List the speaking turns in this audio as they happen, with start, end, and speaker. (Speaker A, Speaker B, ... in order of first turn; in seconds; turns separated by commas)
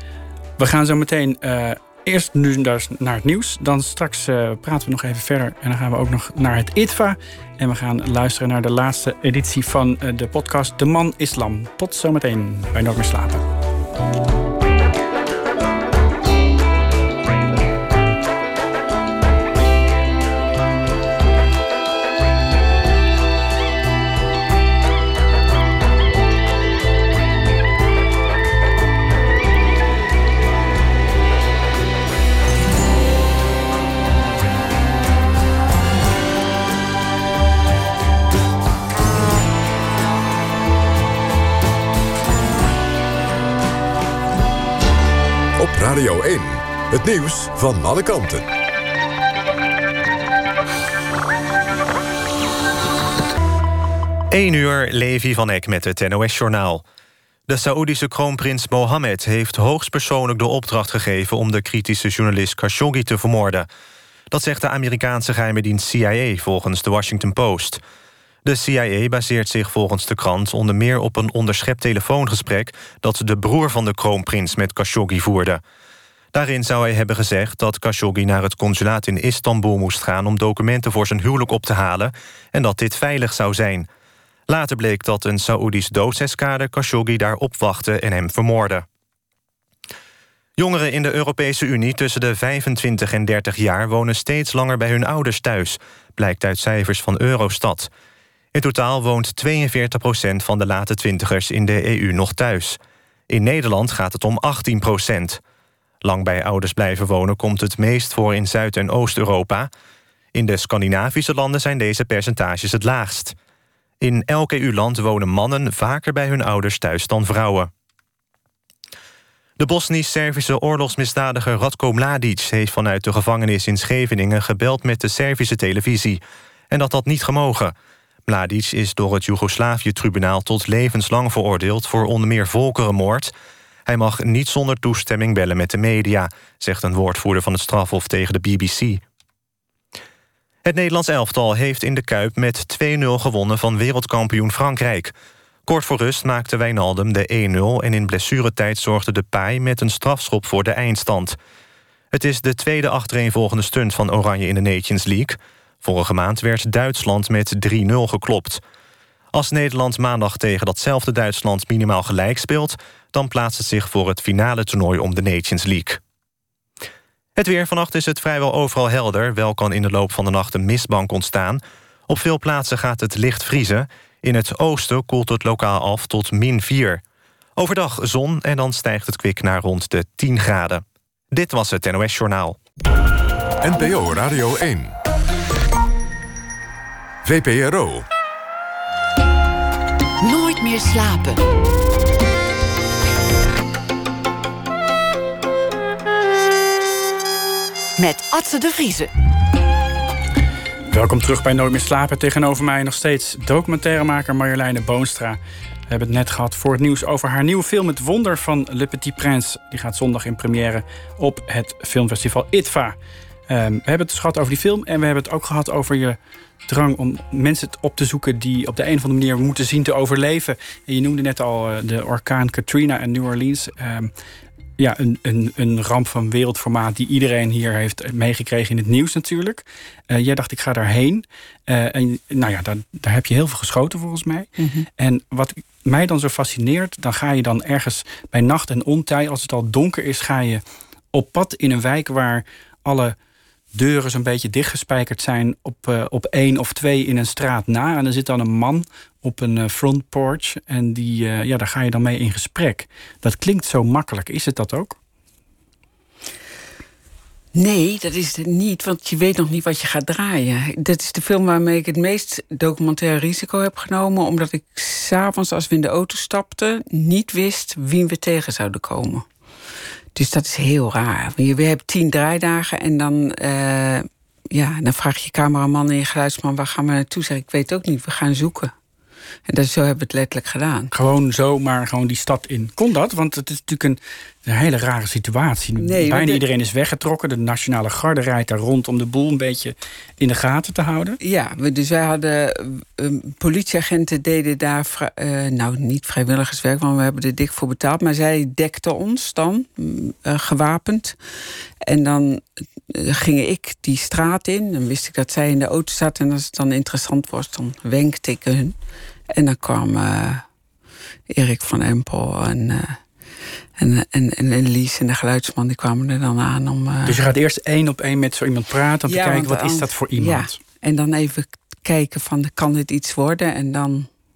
Speaker A: 0.6-13.4, Speaker B: 45.6-48.4, Speaker C: 54.3-56.8, Speaker C: 57.5-63.7, Speaker C: 64.3-67.8, Speaker C: 68.4-75.6, Speaker C: 76.3-83.9, Speaker C: 84.5-88.8, Speaker C: 90.6-97.9, Speaker C: 98.5-105.4, Speaker C: 106.0-109.7, Speaker C: 110.3-113.3, Speaker C: 114.0-117.7, Speaker C: 119.6-127.7, Speaker C: 128.3-133.3, Speaker C: 133.9-139.0, Speaker C: 140.6-145.1, Speaker C: 145.7-151.4, Speaker C: 152.1-158.6, Speaker C: 159.3-166.0, Speaker C: 167.3-177.0, Speaker C: 177.6-182.6, Speaker B: 183.6-184.9, Speaker B: 187.2-188.1, Speaker D: 190.2-191.4, Speaker D: 198.0-199.1, Speaker A: 200.9-213.0, Speaker A: 213.5-216.2, Speaker A: 216.7-224.1, Speaker A: 224.8-240.6, Speaker E: 234.6-234.9, Speaker A: 241.1-243.1, Speaker A: 243.7-254.9, Speaker E: 257.5-269.2, Speaker E: 270.1-278.7, Speaker E: 279.5-280.9, Speaker A: 280.9-291.2, Speaker E: 285.8-286.4, Speaker E: 291.2-301.1, Speaker E: 301.8-308.7, Speaker E: 309.3-310.4, Speaker E: 311.3-313.0, Speaker E: 313.8-317.2, Speaker A: 317.1-320.6, Speaker E: 319.1-324.1